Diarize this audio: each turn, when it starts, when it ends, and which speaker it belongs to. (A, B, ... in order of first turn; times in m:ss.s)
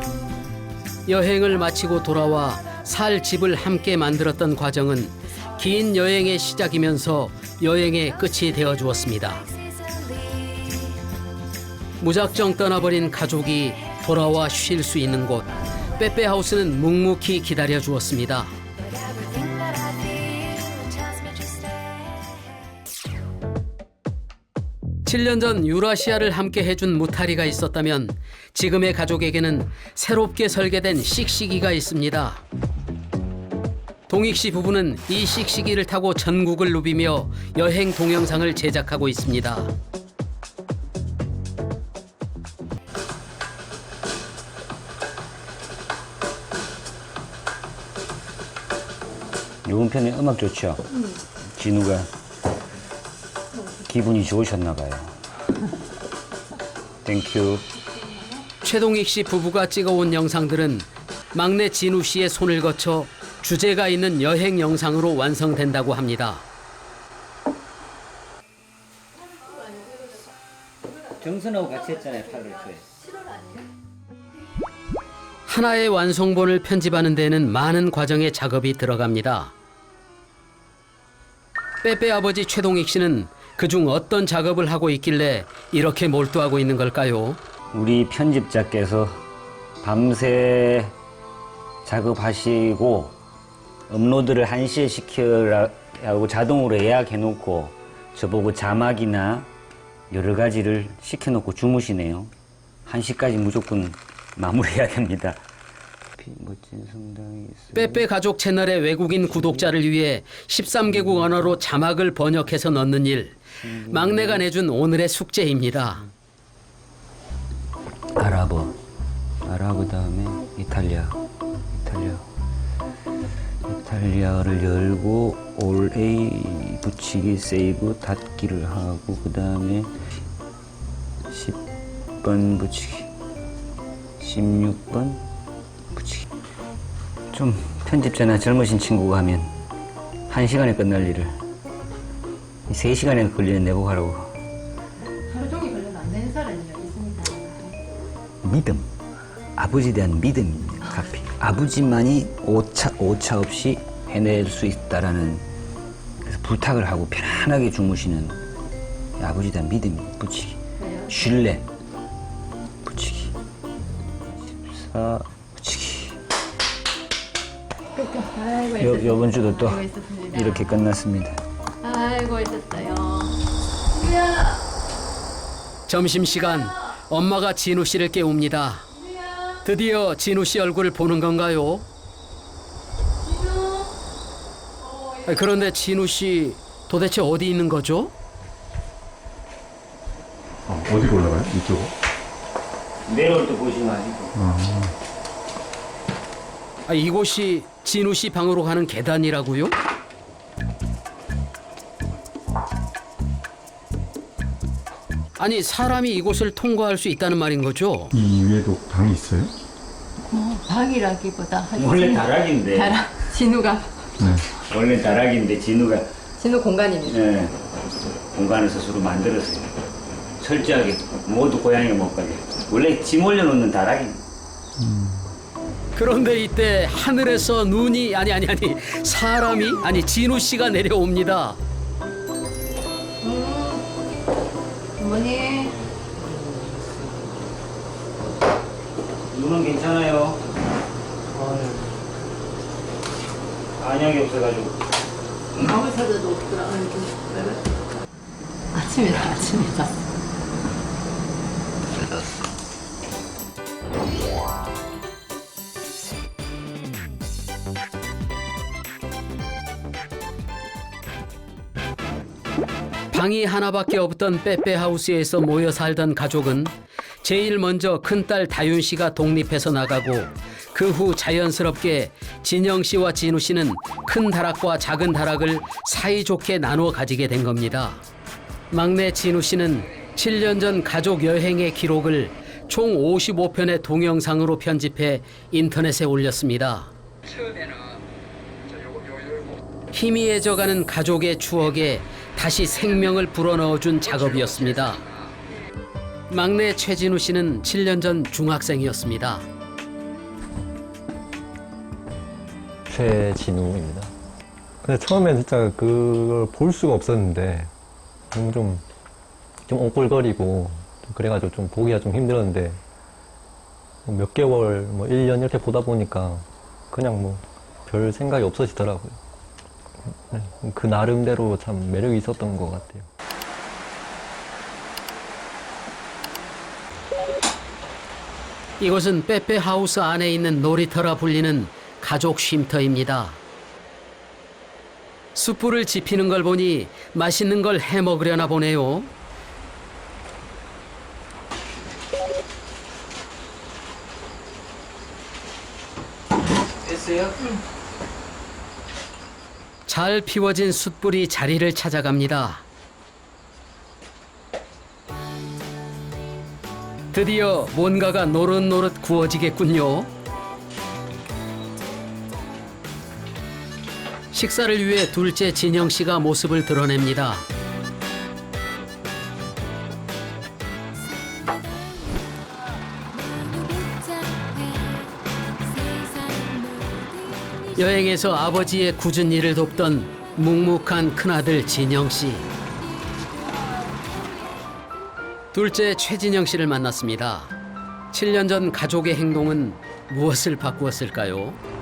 0:01.1-0:09.4 A
0:12.0-0:18.5 A
0:19.2-0:22.0 B
0:25.1-0:32.4 A
0:34.1-0:39.7 A
0:49.6-0:50.8 C
0:51.6-0:52.1 C
0:53.8-0:55.1 C
0:57.0-0:57.6 C
0:58.6-1:06.4 A
1:11.2-1:12.8 C
1:15.5-1:19.5 A
1:21.8-1:27.4 A
1:27.7-1:29.2 C
1:29.8-1:30.9 C
1:31.9-1:33.2 C
1:33.9-1:39.5 C
1:40.1-1:42.3 C
1:42.9-1:45.4 C
1:46.2-1:48.0 C
1:47.7-1:56.1 A
1:49.4-1:49.6 C
1:53.6-1:54.4 C
1:58.2-1:58.8 C
1:59.4-2:01.2 C
2:01.7-2:02.3 C
2:03.7-2:09.9 C
2:11.3-2:11.6 C
2:12.2-2:13.1 C
2:14.2-2:15.2 C
2:16.0-2:16.2 C
2:17.3-2:19.5 C
2:20.3-2:21.3 C
2:22.7-2:24.4 C
2:25.3-2:27.7 D
2:28.4-2:28.9 C
2:29.6-2:35.4 C
2:36.2-2:38.4 C
2:39.2-2:41.6 C
2:40.8-2:41.1 D
2:42.8-2:43.3 C
2:44.5-2:46.2 C
2:48.0-2:50.5 D
2:48.8-2:51.4 C
2:51.8-2:53.3 D
2:54.0-2:54.5 D
2:55.9-2:58.9 A
2:59.6-3:01.9 A
3:05.2-3:08.1 A
3:10.7-3:11.9 E
3:13.1-3:14.4 C
3:14.4-3:14.9 E
3:16.9-3:19.8 A
3:25.4-3:28.1 A
3:28.1-3:29.5 E
3:31.7-3:33.0 C
3:33.3-3:33.8 D
3:34.2-3:34.5 E
3:34.7-3:36.1 C
3:36.4-3:37.0 D
3:37.0-3:37.5 C
3:38.3-3:39.7 C
3:40.4-3:44.2 C
3:44.8-3:45.2 E
3:46.0-3:51.6 A
3:59.3-4:00.4 C
4:03.8-4:04.8 C
4:23.1-4:38.0 A
4:38.7-4:46.9 A
4:49.9-4:55.0 A
4:56.3-4:59.5 A
5:02.9-5:04.1 F
5:04.8-5:07.7 F
5:08.3-5:08.8 F
5:09.7-5:12.8 F
5:14.0-5:19.2 F
5:20.0-5:23.1 F
5:28.8-5:33.4 A
5:35.4-5:39.1 A
5:49.9-5:52.6 A
5:57.1-6:00.1 A
6:04.3-6:07.4 A
6:13.4-6:15.1 B
6:15.9-6:17.0 B
6:17.8-6:22.5 A
6:25.5-6:27.5 A
6:28.1-6:31.6 A